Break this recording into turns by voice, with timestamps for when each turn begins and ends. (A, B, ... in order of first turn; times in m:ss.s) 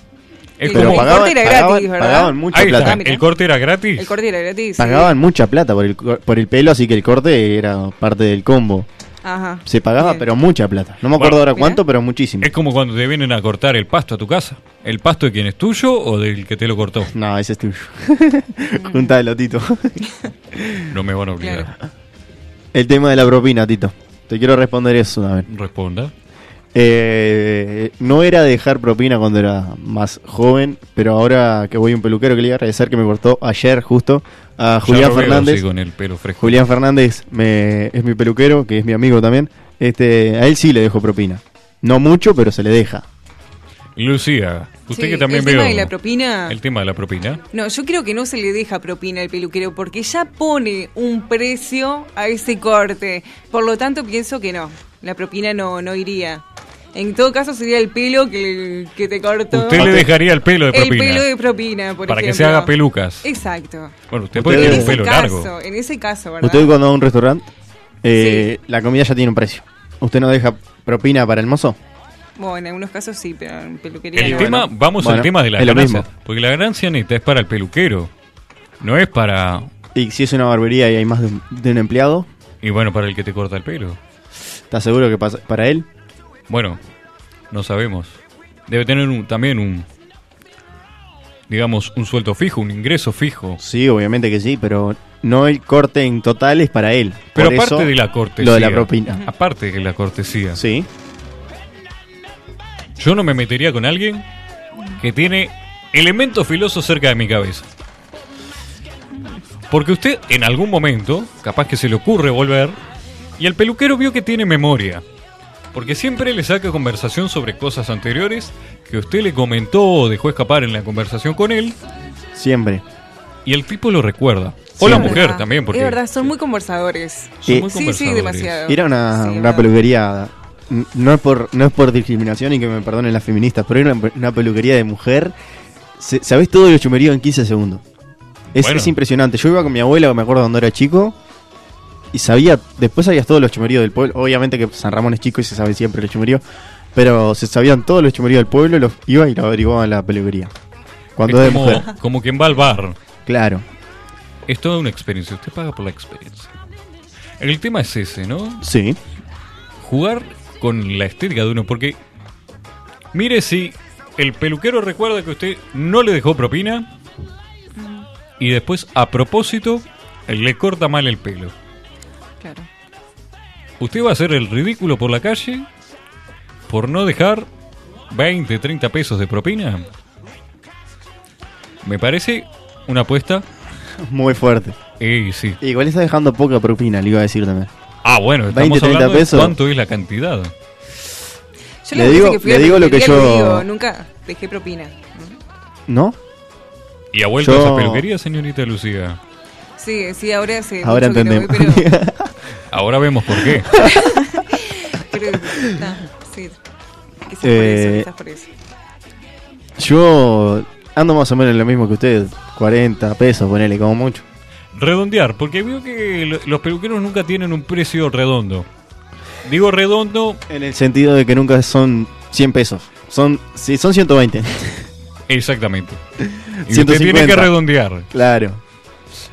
0:00.6-0:01.3 A
0:00.6-0:03.2 B
0:00.7-0:03.0 C
0:02.5-0:04.1 A
0:04.0-0:05.2 B
0:04.8-0:08.9 C
0:09.2-0:10.3 B
0:09.6-0:12.5 C
0:11.2-0:11.5 A
0:11.5-0:11.8 B
0:12.4-0:17.1 A
0:17.1-0:20.9 C
0:18.8-0:19.2 B
0:20.9-0:21.7 A
0:21.4-0:21.7 B
0:22.7-0:25.5 C
0:25.5-0:26.1 A
0:26.7-0:35.6 C
0:34.8-0:36.6 A
0:36.4-0:43.0 C
0:44.0-0:45.9 A
0:44.9-0:46.6 B
0:46.5-0:47.4 A
0:47.5-0:56.4 B
0:56.9-1:00.0 B
0:59.5-1:01.3 A
0:59.8-1:00.1 C
1:00.7-1:03.9 B
1:02.1-1:03.3 A
1:04.1-1:05.5 A
1:04.4-1:05.0 C
1:04.4-1:06.7 B
1:06.4-1:07.5 C
1:08.0-1:11.8 C
1:08.1-1:08.5 B
1:12.4-1:14.6 B
1:14.2-1:18.1 A
1:14.2-1:16.0 C
1:18.8-1:19.7 A
1:19.9-1:22.3 C
1:22.6-1:24.0 A
1:24.7-1:25.9 C
1:26.5-1:26.8 A
1:27.5-1:29.8 A
1:31.5-1:33.6 A
1:33.6-1:39.2 C
1:37.4-1:40.6 A
1:40.5-1:40.9 C
1:43.0-1:44.2 A
1:45.0-1:47.6 A
1:49.7-1:52.8 A
1:53.4-1:55.0 A
1:55.7-2:01.8 A
2:02.3-2:02.8 C
2:03.4-2:06.3 A
2:04.8-2:05.2 C
2:04.8-2:09.7 B
2:07.4-2:08.7 A
2:08.7-2:15.3 C
2:16.0-2:17.8 C
2:18.5-2:21.2 C
2:18.6-2:18.9 A
2:22.1-2:26.4 C
2:26.9-2:30.5 C
2:31.2-2:31.9 C
2:31.3-2:33.0 A
2:33.2-2:33.6 C
2:34.5-2:36.5 A
2:37.4-2:38.6 A
2:38.6-2:39.0 C
2:39.8-2:42.0 A
2:43.1-2:46.9 A
2:47.8-2:48.0 B
2:48.4-2:51.5 A
2:52.4-2:52.7 B
2:53.8-2:55.7 A
2:56.7-2:57.5 A
2:58.1-2:59.9 A
3:01.8-3:03.4 A
3:04.0-3:04.8 C
3:05.0-3:05.6 A
3:05.6-3:07.7 C
3:08.0-3:10.5 A
3:08.5-3:09.6 C
3:11.8-3:15.4 B
3:11.9-3:13.7 C
3:15.9-3:16.2 C
3:17.1-3:19.2 A
3:17.4-3:18.0 C
3:19.8-3:21.9 B
3:20.8-3:22.3 C
3:22.7-3:23.7 A
3:23.7-3:24.0 C
3:23.8-3:26.6 B
3:27.2-3:28.5 B
3:27.4-3:28.1 C
3:29.8-3:34.2 C
3:34.7-3:38.7 A
3:39.4-3:40.4 A
3:40.5-3:44.9 C
3:45.3-3:46.0 A
3:46.4-3:47.5 C
3:46.6-3:48.0 A
3:48.1-3:48.6 C